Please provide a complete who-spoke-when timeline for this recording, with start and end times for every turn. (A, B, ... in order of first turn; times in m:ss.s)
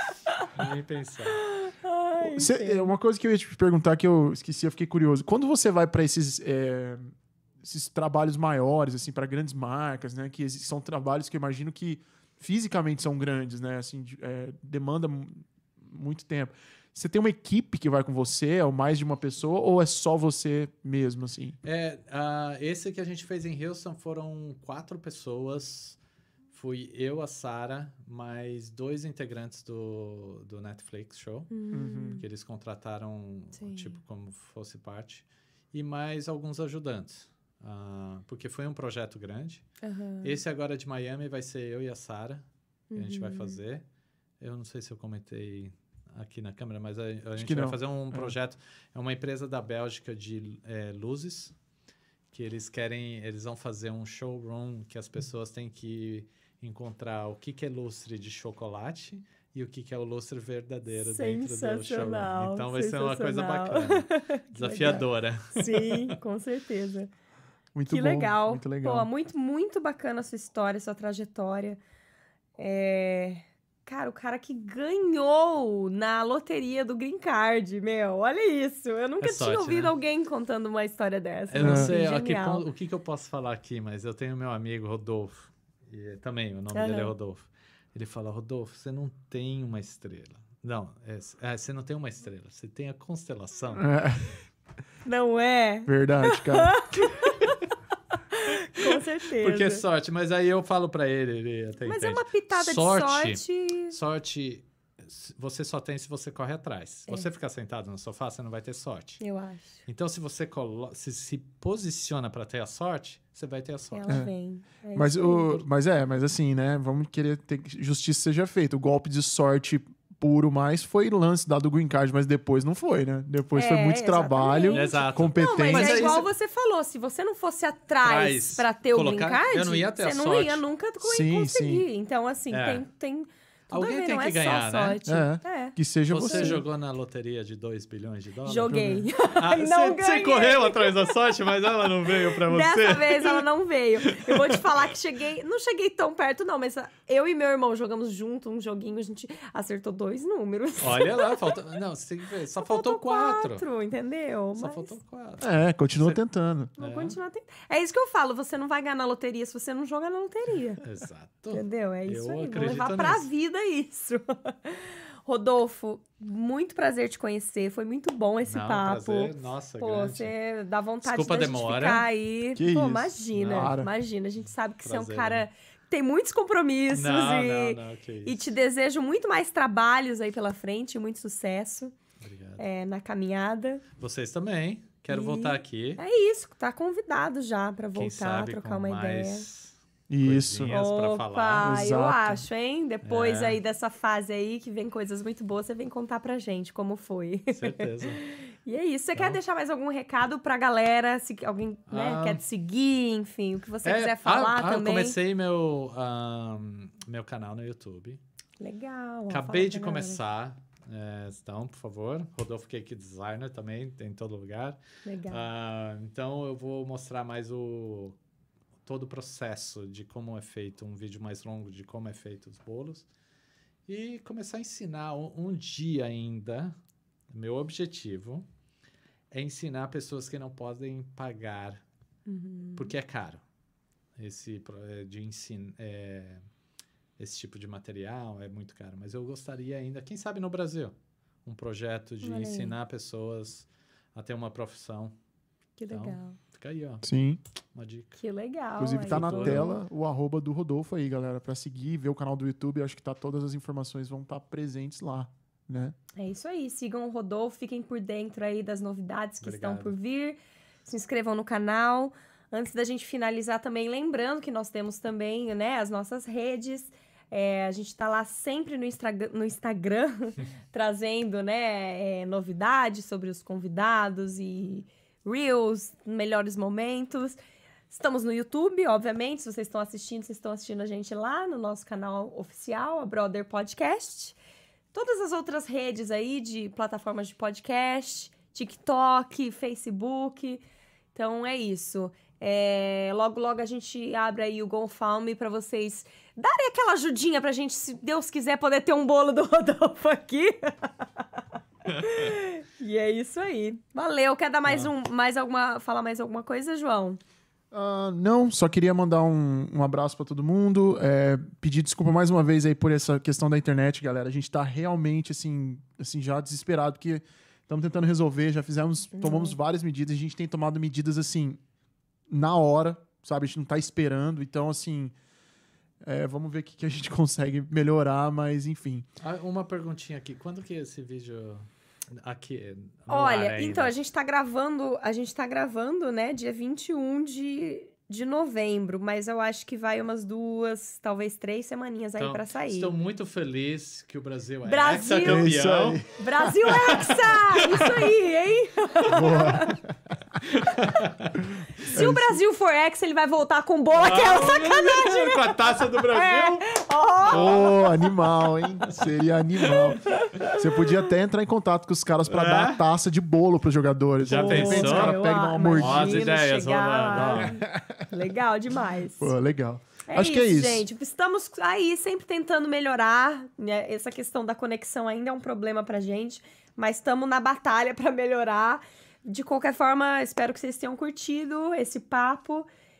0:00.3-0:01.5 A
0:01.3-0:02.9 B
0:02.2-0:21.6 C
0:21.6-0:26.0 A
0:26.5-0:39.6 A
0:31.5-0:32.2 B
0:31.7-0:32.2 C
0:33.5-0:34.0 B
0:39.8-0:40.4 B
0:40.2-0:43.8 A
0:42.9-0:43.6 B
0:44.4-0:51.5 A
0:47.4-0:48.3 C
0:52.3-1:06.1 A
1:00.9-1:07.1 B
1:07.7-1:09.1 C
1:07.9-1:11.8 B
1:12.6-1:22.6 B
1:19.2-1:19.9 A
1:21.5-1:33.9 A
1:21.6-1:21.9 C
1:26.7-1:27.1 B
1:33.7-1:34.3 C
1:35.0-1:37.6 B
1:35.8-1:36.8 C
1:38.1-1:39.8 B
1:38.8-1:49.2 A
1:41.8-1:44.0 B
1:49.2-1:49.8 B
1:49.8-1:54.2 A
1:53.9-1:55.6 B
1:54.9-2:06.2 C
2:03.5-2:16.6 B
2:04.7-2:06.3 A
2:08.0-2:10.6 A
2:11.0-2:11.8 C
2:12.5-2:12.8 A
2:13.7-2:15.0 A
2:15.0-2:16.6 C
2:16.1-2:23.4 A
2:18.4-2:21.1 B
2:18.7-2:19.0 C
2:22.4-2:31.6 B
2:24.0-2:24.6 A
2:30.8-2:33.6 A
2:32.6-2:35.0 B
2:34.5-2:36.2 A
2:35.4-2:36.7 C
2:36.8-2:37.2 A
2:36.8-2:40.8 B
2:40.8-2:43.3 A
2:41.5-3:01.9 B
2:48.4-2:50.3 A
2:51.0-2:52.1 A
2:52.5-2:53.9 C
2:53.3-2:53.8 A
2:54.8-2:55.4 A
2:56.9-2:58.5 A
3:02.2-3:02.6 A
3:02.6-3:03.8 B
3:04.0-3:06.0 A
3:05.1-3:09.5 B
3:07.9-3:11.8 A
3:10.1-3:10.8 C
3:10.7-3:25.2 B
3:11.6-3:12.4 C
3:13.0-3:13.6 A
3:17.5-3:18.2 A
3:21.9-3:22.4 A
3:23.8-3:28.2 A
3:28.6-3:30.2 B
3:29.3-3:38.2 A
3:35.0-3:35.5 B
3:38.8-3:43.1 A
3:43.9-3:46.7 A
3:47.3-3:48.4 A
3:49.3-3:51.8 A
3:52.3-3:52.9 B
3:52.8-3:53.4 A
3:54.2-3:56.4 A
3:57.2-4:00.9 A
4:01.4-4:05.1 A
4:02.2-4:02.7 B
4:05.8-4:06.4 B
4:05.9-4:07.0 A
4:07.0-4:07.4 C
4:07.7-4:08.2 A
4:08.2-4:09.8 B
4:08.8-4:15.9 C
4:09.0-4:09.7 A
4:16.2-4:37.4 B
4:19.4-4:20.0 A
4:37.9-4:44.4 B
4:44.9-4:50.6 B
4:51.1-5:07.2 B
5:07.7-5:21.6 C
5:19.1-5:19.6 B
5:22.3-5:25.1 C
5:26.0-5:29.0 C
5:29.2-5:33.9 A
5:33.1-5:42.9 B
5:42.2-5:46.0 A
5:44.6-5:45.5 B
5:45.2-5:46.0 C
5:46.1-5:49.8 B
5:46.6-5:48.1 A
5:49.1-5:49.9 C
5:50.4-5:51.4 A
5:51.6-5:52.4 C
5:51.8-5:57.7 B
5:53.9-5:56.7 A
5:57.2-5:58.0 A
5:57.3-6:06.3 C
5:59.7-6:00.5 A
6:00.1-6:00.6 B
6:02.2-6:02.8 A
6:04.2-6:05.2 A
6:04.3-6:09.3 B
6:05.7-6:07.6 A
6:07.4-6:08.0 C
6:09.2-6:10.8 C
6:10.1-6:22.7 B